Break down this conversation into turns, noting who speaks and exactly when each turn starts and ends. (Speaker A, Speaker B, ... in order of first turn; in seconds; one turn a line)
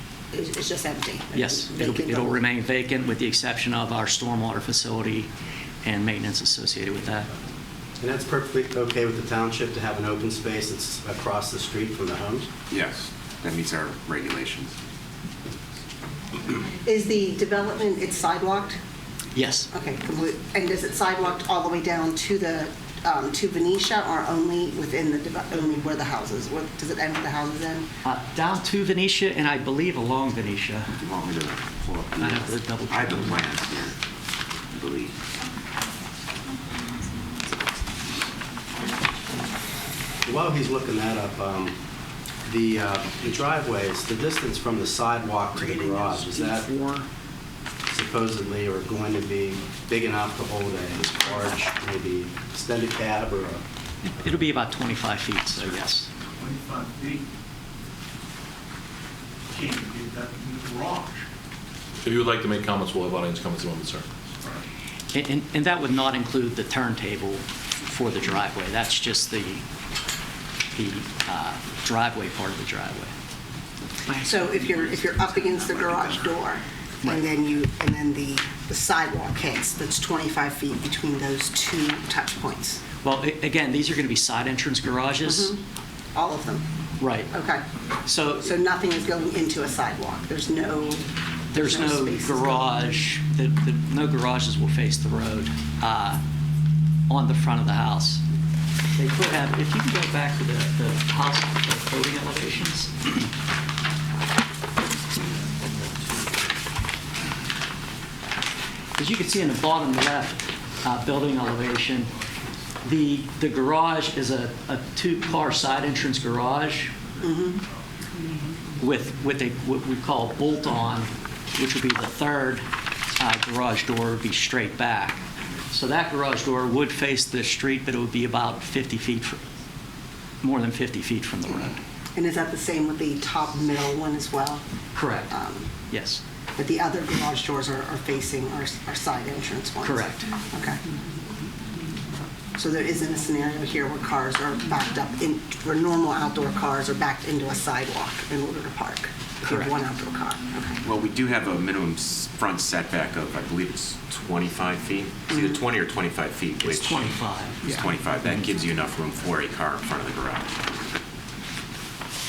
Speaker A: 0.3-2.4
Speaker B: 1.3-5.3
Speaker B: 5.8-7.3
Speaker C: 8.0-12.5
Speaker D: 12.7-14.8
Speaker A: 16.8-18.8
Speaker B: 19.3-19.7
Speaker A: 19.7-27.9
Speaker B: 28.0-31.0
Speaker D: 31.0-34.0
Speaker B: 32.2-33.4
Speaker D: 34.7-35.2
Speaker C: 40.2-41.8
Speaker C: 42.5-46.7
Speaker B: 45.6-47.1
Speaker C: 47.9-53.6
Speaker B: 54.0-56.1
Speaker E: 56.4-57.3
Speaker E: 59.5-61.3
Speaker F: 62.0-64.1
Speaker B: 65.1-69.6
Speaker B: 70.8-73.1
Speaker B: 74.1-74.5
Speaker A: 74.2-82.8
Speaker B: 83.0-85.5
Speaker A: 85.2-85.6
Speaker A: 86.1-86.7
Speaker B: 87.0-87.3
Speaker A: 87.3-87.7
Speaker B: 88.1-88.5
Speaker A: 88.4-92.8
Speaker B: 91.5-96.2
Speaker B: 97.1-98.2
Speaker B: 99.0-103.3
Speaker B: 109.0-112.1
Speaker B: 112.8-116.9
Speaker A: 117.2-117.6
Speaker B: 118.8-122.7
Speaker B: 123.2-129.4
Speaker B: 130.4-131.8
Speaker A: 132.2-134.6
Speaker B: 134.9-135.3
Speaker A: 135.3-135.7
Speaker B: 135.9-136.2
Speaker A: 136.6-140.8
Speaker B: 139.8-140.3
Speaker A: 142.6-150.8
Speaker B: 149.4-149.8
Speaker D: 150.8-160.9
Speaker A: 155.3-155.6
Speaker B: 156.6-158.3